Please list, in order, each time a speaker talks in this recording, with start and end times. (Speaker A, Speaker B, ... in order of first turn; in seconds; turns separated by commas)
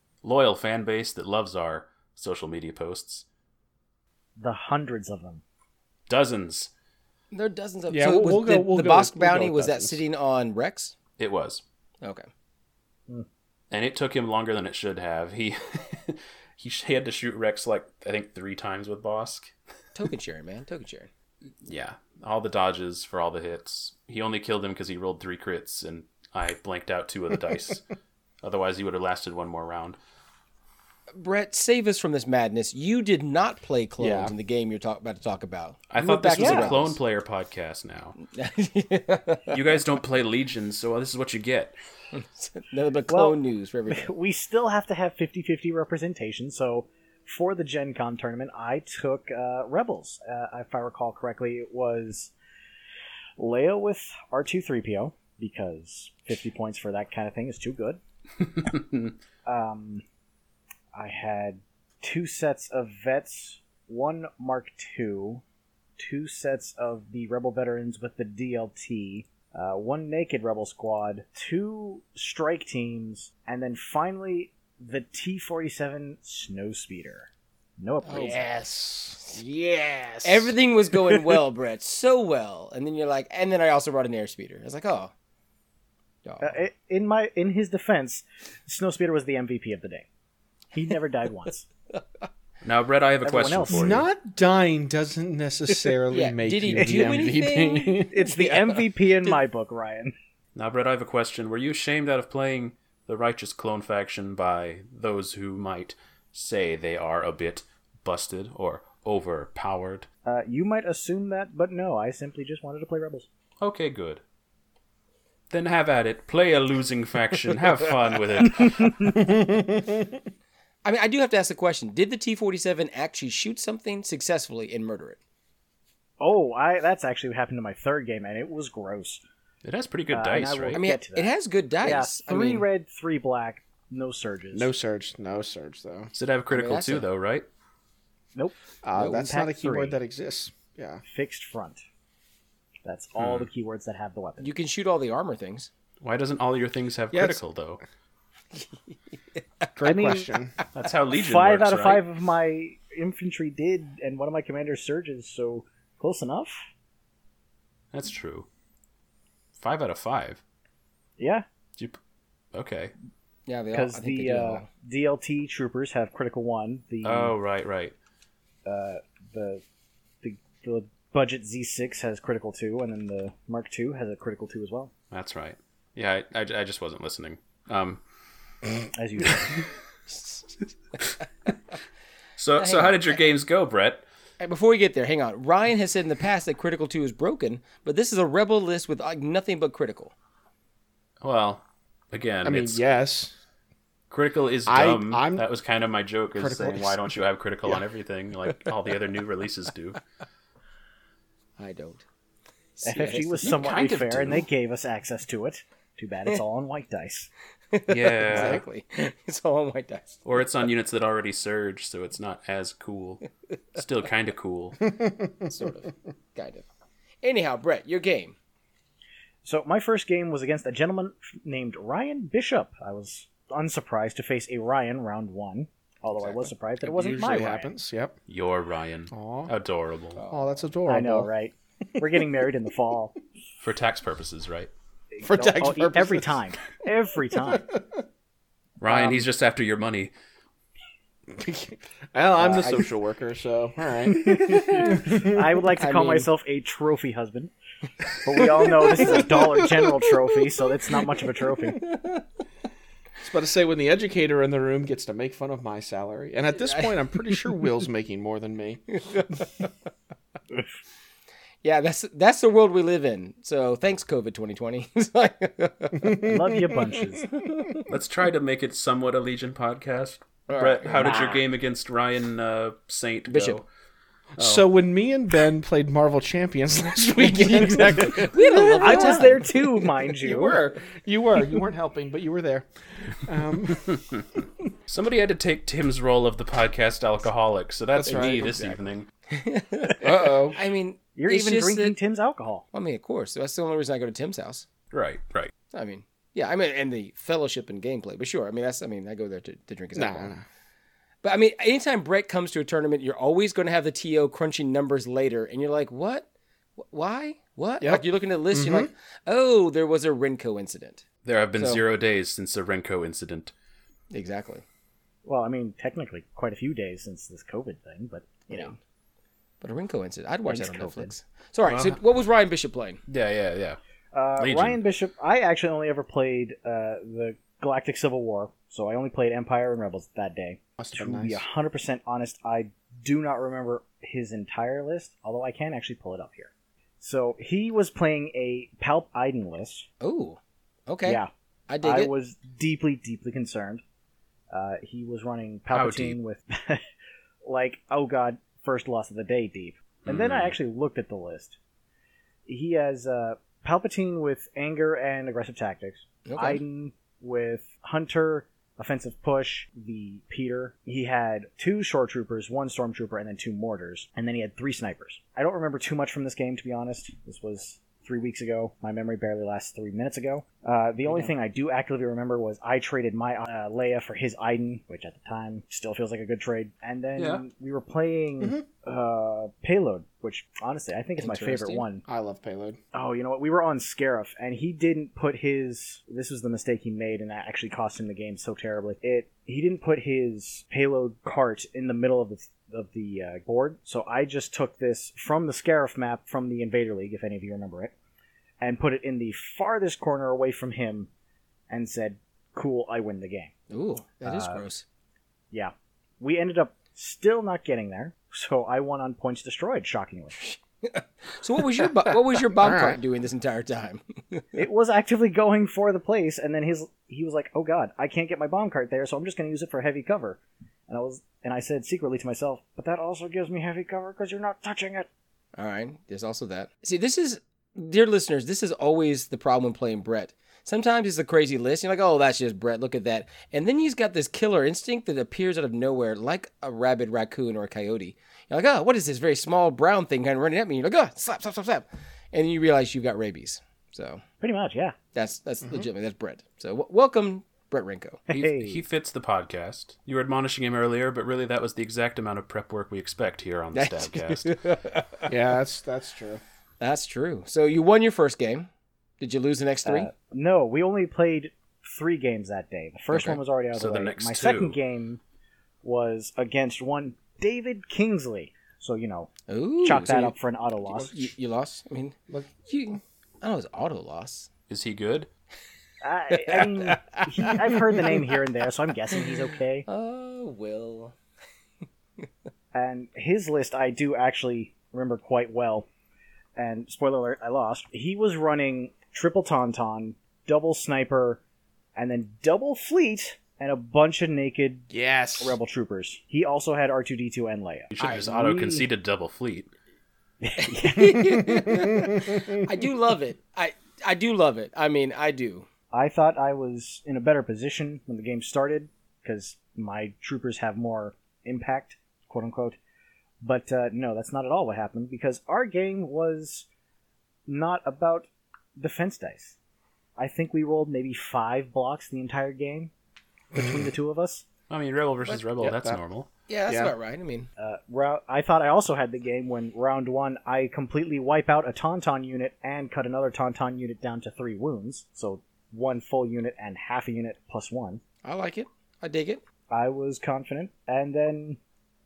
Speaker A: 0.2-3.2, Speaker B: 4.4-5.4, Speaker A: 6.1-6.7, Speaker C: 7.3-10.9, Speaker D: 7.9-10.0, Speaker A: 11.2-11.6, Speaker C: 12.0-12.3, Speaker A: 13.7-19.5, Speaker C: 19.9-21.1, Speaker A: 21.6-27.8, Speaker A: 28.4-30.0, Speaker C: 31.1-37.0, Speaker D: 34.0-34.3, Speaker A: 35.9-38.1, Speaker B: 36.3-36.7, Speaker C: 38.2-39.6, Speaker A: 39.5-41.7, Speaker C: 42.1-44.1, Speaker B: 43.1-43.4, Speaker B: 43.9-52.3, Speaker B: 53.4-58.0, Speaker A: 58.5-59.1, Speaker B: 59.5-60.0, Speaker B: 60.9-65.4, Speaker B: 66.0-78.4, Speaker D: 78.1-81.4, Speaker C: 80.2-85.1, Speaker C: 86.2-86.5, Speaker B: 86.4-90.0, Speaker B: 90.7-91.7, Speaker A: 92.6-94.0, Speaker B: 93.2-94.0, Speaker D: 93.7-98.3, Speaker C: 96.1-99.3, Speaker B: 96.8-97.3, Speaker B: 98.1-100.1, Speaker A: 100.5-110.1, Speaker B: 110.2-113.3, Speaker A: 113.6-114.2, Speaker A: 115.5-119.0, Speaker D: 119.0-120.2, Speaker C: 120.8-125.2, Speaker B: 126.2-129.2, Speaker A: 129.6-130.8, Speaker B: 130.1-134.7, Speaker C: 130.7-132.7, Speaker D: 134.5-136.1, Speaker A: 136.1-137.5, Speaker C: 136.5-137.1, Speaker B: 138.3-140.0, Speaker D: 138.8-141.0, Speaker B: 141.0-141.8, Speaker B: 142.8-144.5, Speaker A: 143.2-143.5, Speaker C: 144.4-145.7, Speaker A: 146.0-147.8, Speaker D: 147.1-147.4, Speaker D: 149.8-150.6, Speaker B: 149.8-150.3, Speaker A: 150.7-152.0, Speaker B: 151.1-156.6, Speaker A: 157.9-158.5, Speaker A: 159.6-160.4, Speaker B: 161.2-161.4, Speaker A: 162.5-162.9, Speaker C: 163.4-164.7, Speaker B: 163.7-167.3, Speaker A: 167.0-167.9, Speaker B: 168.6-169.6, Speaker B: 170.2-174.9, Speaker A: 175.1-178.0, Speaker B: 178.9-179.6, Speaker A: 182.4-184.0, Speaker C: 182.6-183.2, Speaker C: 184.4-190.1, Speaker A: 191.2-192.8, Speaker D: 192.4-193.3, Speaker A: 194.1-200.0, Speaker D: 194.7-195.4, Speaker D: 196.3-197.1, Speaker C: 201.6-202.0, Speaker C: 202.8-203.6, Speaker B: 202.8-207.3, Speaker A: 203.4-204.4, Speaker C: 207.7-210.2, Speaker A: 207.9-208.6, Speaker D: 208.3-208.6, Speaker A: 210.2-214.8, Speaker D: 214.9-215.3, Speaker C: 215.4-216.7, Speaker C: 217.2-218.3, Speaker B: 219.4-227.7, Speaker D: 226.8-228.2, Speaker A: 228.3-230.2, Speaker D: 229.1-229.5, Speaker C: 230.2-230.7, Speaker D: 230.3-231.3, Speaker B: 230.9-233.2, Speaker A: 233.6-234.7, Speaker B: 235.2-237.7, Speaker D: 235.2-236.4, Speaker D: 237.4-238.0, Speaker A: 238.8-240.1, Speaker D: 241.3-245.4, Speaker C: 242.4-242.8, Speaker B: 244.1-247.5, Speaker C: 245.8-246.3, Speaker B: 248.2-251.8, Speaker D: 249.1-249.5, Speaker C: 251.7-252.2, Speaker D: 253.2-259.0, Speaker C: 256.6-257.5, Speaker C: 258.9-259.7, Speaker C: 261.6-266.3, Speaker D: 266.0-267.2, Speaker B: 266.2-267.3, Speaker C: 267.3-267.9, Speaker A: 267.9-273.6, Speaker C: 270.5-271.4, Speaker B: 271.0-271.3, Speaker C: 273.3-273.6, Speaker D: 274.4-279.4, Speaker A: 274.4-274.7, Speaker C: 277.2-279.6, Speaker B: 278.7-280.6, Speaker D: 280.2-284.0, Speaker A: 283.9-284.2, Speaker A: 284.9-289.0, Speaker D: 287.9-288.7, Speaker C: 288.0-288.8, Speaker C: 289.3-291.9, Speaker D: 290.0-290.6, Speaker B: 291.1-292.6, Speaker C: 292.7-294.6, Speaker A: 294.9-295.5, Speaker C: 295.7-300.3, Speaker D: 299.9-300.4, Speaker C: 301.2-311.0, Speaker D: 307.8-308.9, Speaker A: 311.2-313.5, Speaker C: 311.6-311.8, Speaker C: 314.1-314.6, Speaker B: 315.2-318.7, Speaker C: 319.6-323.0, Speaker B: 320.4-321.1, Speaker A: 321.7-322.0, Speaker A: 323.1-323.8, Speaker B: 324.1-339.9, Speaker A: 324.4-324.8, Speaker D: 330.8-331.4, Speaker C: 340.0-342.1, Speaker B: 341.0-343.8, Speaker B: 344.5-346.8, Speaker A: 345.7-346.2, Speaker B: 347.4-351.6, Speaker A: 350.0-350.5, Speaker B: 352.4-382.0, Speaker C: 356.2-356.6, Speaker A: 377.2-377.4, Speaker C: 381.2-381.8, Speaker D: 382.0-382.8, Speaker B: 382.9-397.9, Speaker B: 398.6-401.1, Speaker B: 401.7-403.5, Speaker C: 403.7-404.8, Speaker B: 404.2-404.6, Speaker B: 405.5-410.4, Speaker C: 410.4-414.4, Speaker D: 412.6-413.0, Speaker B: 414.5-425.1, Speaker C: 425.6-444.2, Speaker B: 444.4-444.9, Speaker C: 445.1-448.2, Speaker B: 448.3-448.8, Speaker A: 448.3-454.6, Speaker C: 453.7-455.3, Speaker D: 455.3-456.4, Speaker C: 456.8-458.7, Speaker C: 459.2-460.1, Speaker B: 459.8-465.2, Speaker A: 463.1-464.8, Speaker B: 465.8-471.3, Speaker C: 469.5-470.3, Speaker C: 470.9-474.5, Speaker D: 472.3-472.5, Speaker A: 474.7-475.3, Speaker B: 476.0-479.9, Speaker C: 476.4-478.3, Speaker C: 479.9-481.1, Speaker B: 482.7-485.9, Speaker B: 486.6-491.4, Speaker B: 491.9-498.9, Speaker D: 494.9-495.6, Speaker A: 497.9-499.7, Speaker B: 500.4-501.4, Speaker C: 500.6-505.7, Speaker D: 501.5-502.4, Speaker B: 505.9-512.8, Speaker B: 513.4-516.7, Speaker B: 517.5-519.5, Speaker B: 520.2-522.9, Speaker B: 523.5-524.4, Speaker A: 524.7-526.3, Speaker D: 525.6-526.0, Speaker C: 526.5-527.5, Speaker D: 526.7-526.9, Speaker B: 527.6-538.0, Speaker C: 538.2-539.4, Speaker B: 539.7-541.6